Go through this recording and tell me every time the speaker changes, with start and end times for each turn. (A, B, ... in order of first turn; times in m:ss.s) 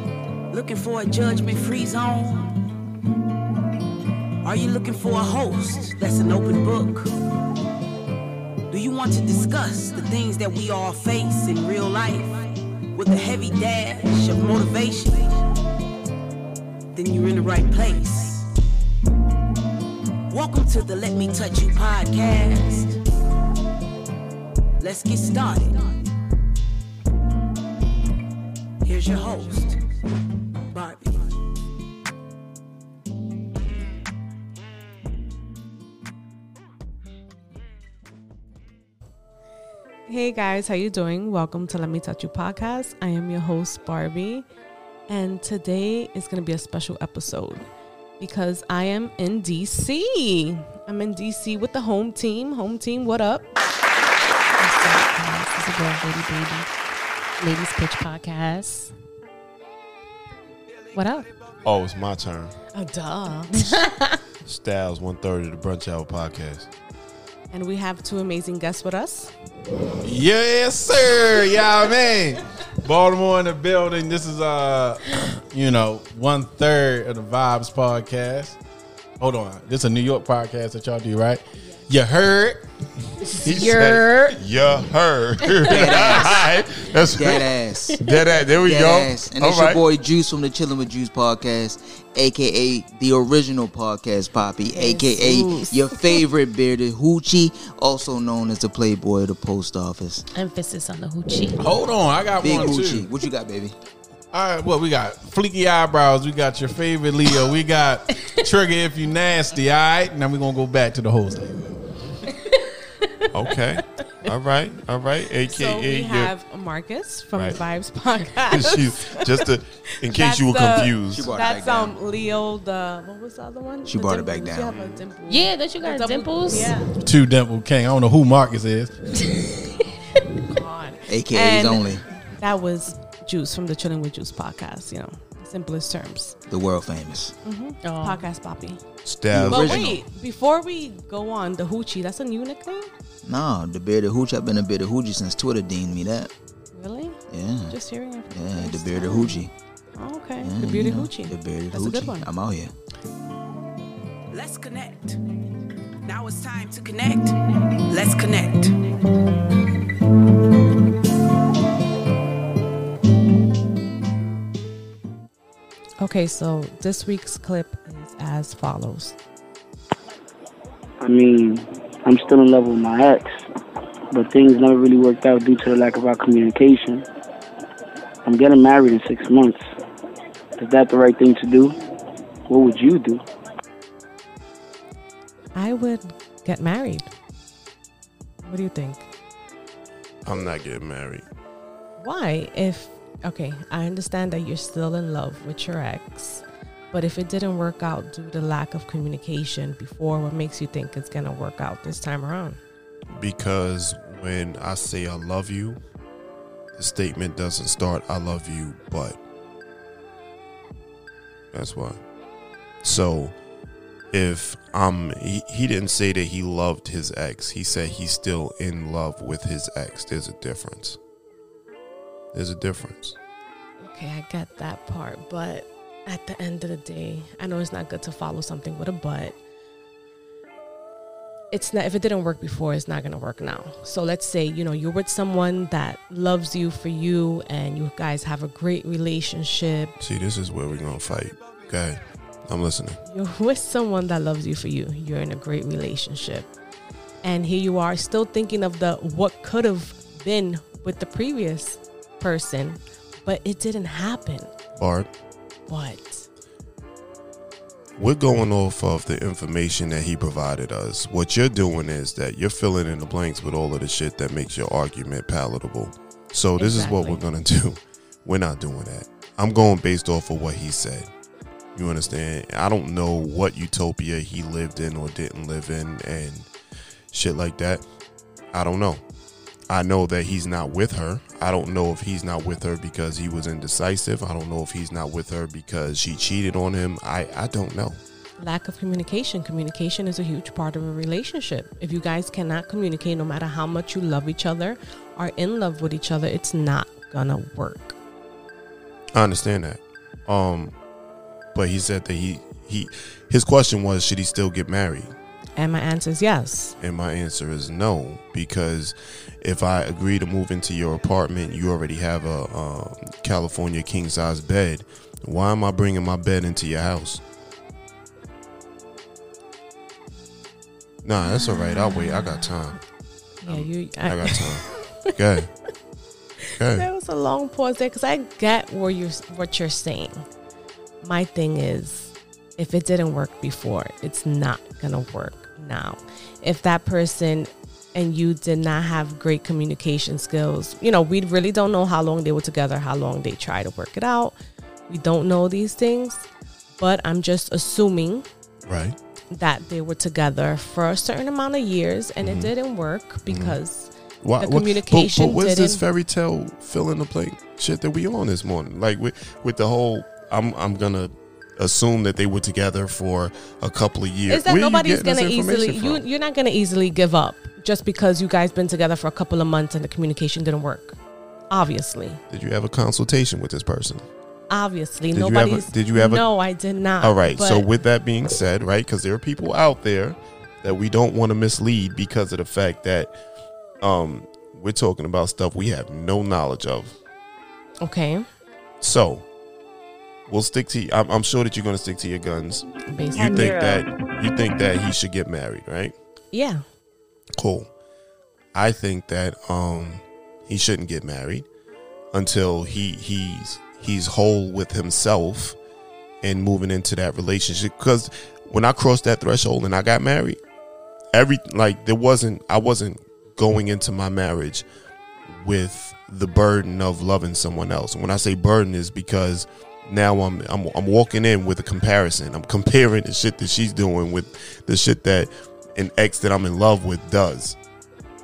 0:00.5-0:02.7 A
0:04.4-0:07.1 A
0:08.7-0:15.4 A
0:16.9-0:18.5 A
0:20.3-0:23.0 A
0:24.8-0:25.9 A
0:28.8-0:29.8 A
0:30.7-0:31.4 A
0:40.1-0:44.4 B
0:45.1-0:47.7 B
0:48.2-0:53.5 B
0:54.6-0:56.7 C
0:57.4-0:58.9 C
1:00.9-1:01.3 C
1:01.6-1:02.5 D
1:02.7-1:03.8 B
1:03.5-1:04.2 C
1:04.4-1:06.7 D
1:07.5-1:09.3 B
1:10.0-1:18.6 E
1:19.2-1:22.6 E
1:23.2-1:24.4 C
1:23.4-1:29.8 D
1:25.4-1:25.8 C
1:25.7-1:26.4 F
1:27.1-1:28.0 F
1:28.6-1:40.2 F
1:34.8-1:35.8 B
1:40.3-1:41.6 C
1:41.6-1:43.1 E
1:42.4-1:43.8 F
1:44.3-1:51.7 E
1:53.3-1:56.3 D
1:55.5-2:06.9 B
1:57.3-1:57.6 D
1:58.5-2:01.3 D
2:01.1-2:02.0 F
2:03.8-2:04.8 F
2:04.7-2:05.0 D
2:05.3-2:06.8 C
2:07.0-2:09.3 E
2:10.2-2:16.4 B
2:11.1-2:12.0 F
2:16.5-2:17.4 F
2:17.4-2:18.8 B
2:17.8-2:18.2 C
2:19.0-2:20.0 D
2:19.3-2:20.0 F
2:19.5-2:22.9 B
2:23.2-2:26.3 F
2:26.7-2:32.3 B
2:27.3-2:27.8 F
2:28.3-2:29.5 F
2:30.4-2:32.7 F
2:34.3-2:35.2 A
2:36.0-2:38.8 A
2:46.0-2:49.2 B
2:51.0-2:53.4 G
2:54.1-2:57.0 G
2:58.2-2:59.6 G
3:00.6-3:01.7 G
3:02.5-3:03.2 G
3:05.5-3:07.1 B
3:08.4-3:09.1 B
3:10.2-3:11.2 D
3:12.0-3:22.6 B
3:23.1-3:25.8 D
3:26.8-3:29.2 D
3:31.5-3:32.0 D
3:32.8-3:33.3 D
3:34.1-3:41.0 D
3:42.3-3:43.2 D
3:43.8-3:49.4 B
3:51.5-3:59.9 B
4:00.0-4:03.0 D
4:03.1-4:06.5 B
4:07.2-4:14.5 B
4:14.8-4:15.1 D
4:15.7-4:16.3 B
4:18.0-4:31.1 D
4:26.6-4:27.3 B
4:31.7-4:36.5 D
4:37.1-4:37.8 D
4:38.5-4:39.0 D
4:39.7-4:48.0 D
4:48.4-4:58.0 B
4:59.1-5:00.7 D
5:01.5-5:05.1 D
5:05.6-5:06.8 B
5:06.8-5:17.2 D
5:21.0-5:22.8 D
5:23.4-5:25.1 B
5:23.4-5:25.5 D
5:26.5-5:30.2 B
5:26.6-5:26.9 D
5:31.0-5:44.4 B
5:44.9-5:46.3 B
5:46.8-5:48.2 B
5:48.6-5:49.0 D
5:49.3-5:55.8 B
5:52.2-5:52.5 D
5:53.3-5:53.6 D
5:54.2-6:06.0 D
6:04.3-6:11.0 B
6:11.5-6:12.2 B
6:12.3-6:14.0 D
6:14.5-6:17.7 B
6:15.1-6:16.3 D
6:17.0-6:23.1 D
6:23.8-6:26.9 D
6:27.8-6:28.2 B
6:28.8-6:29.2 D
6:30.3-6:35.9 D
6:32.8-6:33.8 B
6:36.3-6:36.6 B
6:37.4-6:37.7 D
6:38.5-6:41.5 D
6:42.1-6:45.6 D
6:46.2-6:50.4 D
6:51.1-6:54.6 D
6:55.3-7:07.6 D